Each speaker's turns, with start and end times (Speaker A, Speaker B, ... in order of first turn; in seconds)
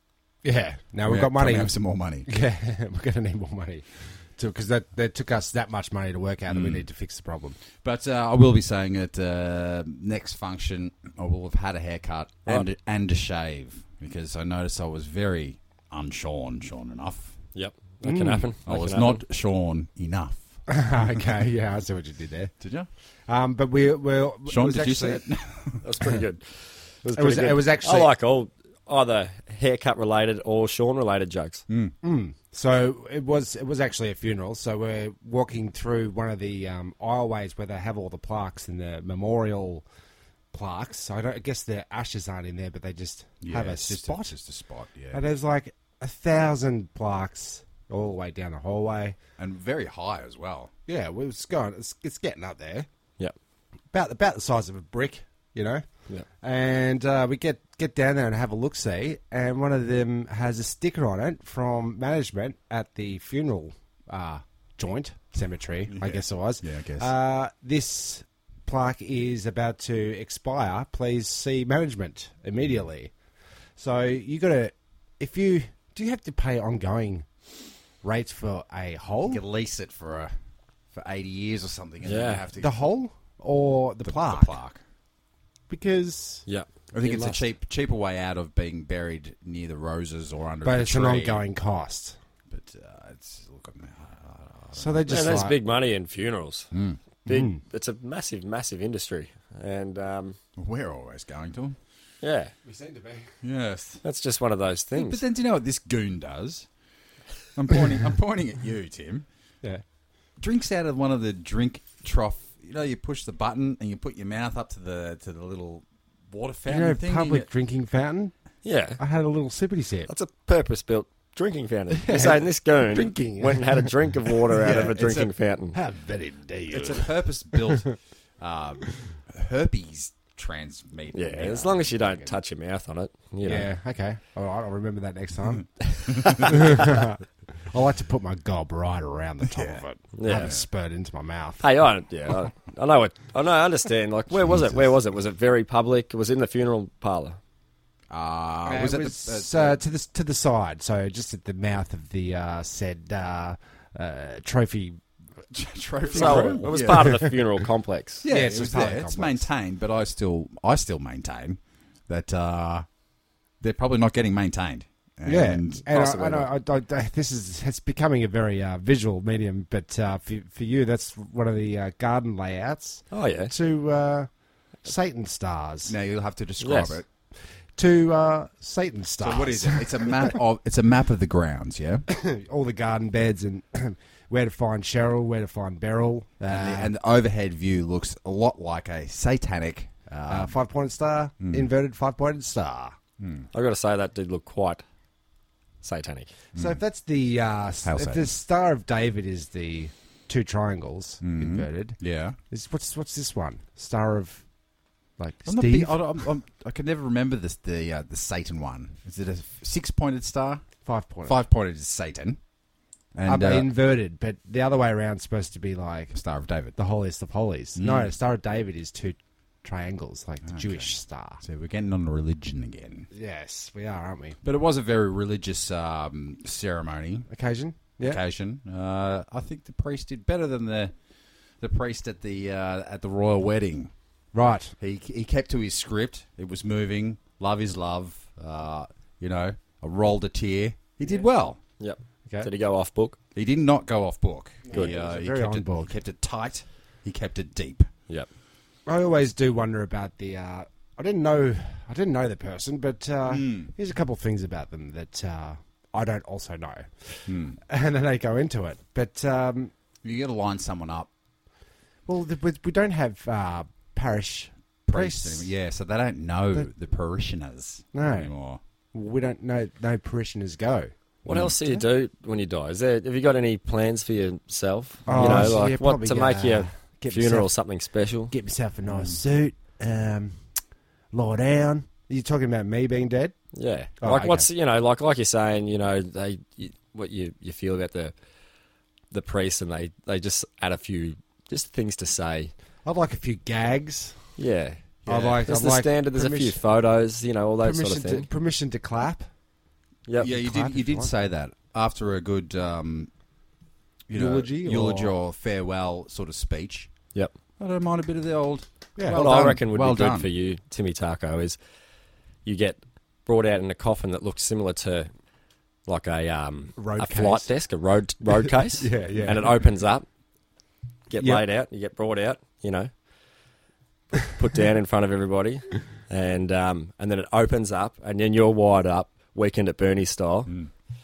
Speaker A: 0.4-1.7, 2.2-7.6, 18.0-18.5, 20.7-22.5, 23.3-25.2, 27.1-28.1, 32.0-39.8, 40.5-44.3, 45.1-49.2, 50.9-52.9, 53.9-55.8, 56.4-73.1, 73.8-77.2, 78.0-79.4, 82.6-84.5, 85.7-86.4, 90.6-92.2, 94.8-95.5, 97.2-97.6, 102.6-103.3, 116.7-118.3, 119.0-120.1, 121.9-124.0, 125.7-127.1, 133.4-137.2, 137.7-141.6, 148.7-155.0, 156.2-156.8, 158.3-159.5, 165.2-174.3, 174.8-175.9, 177.8-180.3, 182.1-186.9, 190.3-192.9, 196.6-204.4, 205.2-206.1, 210.8-211.4, 213.2-216.1, 216.8-221.4, 223.1-224.4, 227.3-228.2, 234.3-234.7, 244.7-245.9, 248.8-259.7, 262.1-265.5, 267.9-268.3, 268.9-270.9, 275.1-277.5, 278.3-280.4, 281.1-283.4, 284.0-284.5, 292.8-294.3, 295.1-296.6, 297.6-299.3, 300.2-301.1, 304.1-305.1, 308.9-309.2, 316.8-317.5, 318.8-319.5
Speaker B: 1.0-2.3, 6.5-6.8, 7.8-17.4, 18.6-20.6, 22.6-22.9, 24.4-25.9, 31.7-31.9, 43.4-45.2, 49.4-50.7, 65.9-67.1, 79.2-80.3, 80.9-82.8, 84.0-84.8, 86.9-91.4, 92.5-95.3, 96.7-97.0, 100.6-101.8, 103.4-104.0, 104.9-106.7, 107.5-109.2, 110.4-117.5, 124.6-125.3, 126.7-132.1, 136.1-136.4, 139.4-140.6, 144.4-144.8, 148.1-149.8, 155.5-157.3, 158.2-162.8, 163.6-165.8, 175.8-177.1, 179.2-182.0, 186.5-190.6, 191.4-191.7, 193.2-193.5, 196.5-196.8, 197.8-198.3, 201.2-202.4, 205.4-210.6, 211.2-212.4, 213.1-213.7, 216.1-216.7, 217.8-218.1, 220.4-223.1, 224.4-227.3, 228.0-230.9, 231.6-233.9, 234.8-241.6, 243.3-247.9, 253.2-253.7, 257.3-257.6, 260.0-261.1, 264.9-268.6, 271.3-271.5, 275.1-275.6, 278.9-279.2, 295.1-295.4, 300.2-303.1, 304.1-306.9, 307.6-310.3
Speaker C: 17.5-19.2, 25.8-26.5, 27.0-31.6, 82.0-82.4, 86.5-87.4, 95.1-96.7, 97.2-100.4, 102.2-102.5, 104.0-105.2, 118.6-119.0, 120.1-125.8, 131.1-133.7, 140.2-140.5, 141.6-147.4, 156.1-158.2, 165.9-166.5, 173.1-173.5, 176.6-177.0, 193.5-194.8, 195.8-196.3, 241.8-243.2, 271.2-278.3, 283.5-288.1, 289.1-292.5, 294.4-294.8, 295.4-298.3, 309.1-311.6, 312.4-315.1, 315.9-320.0, 321.1-322.9, 324.2-330.5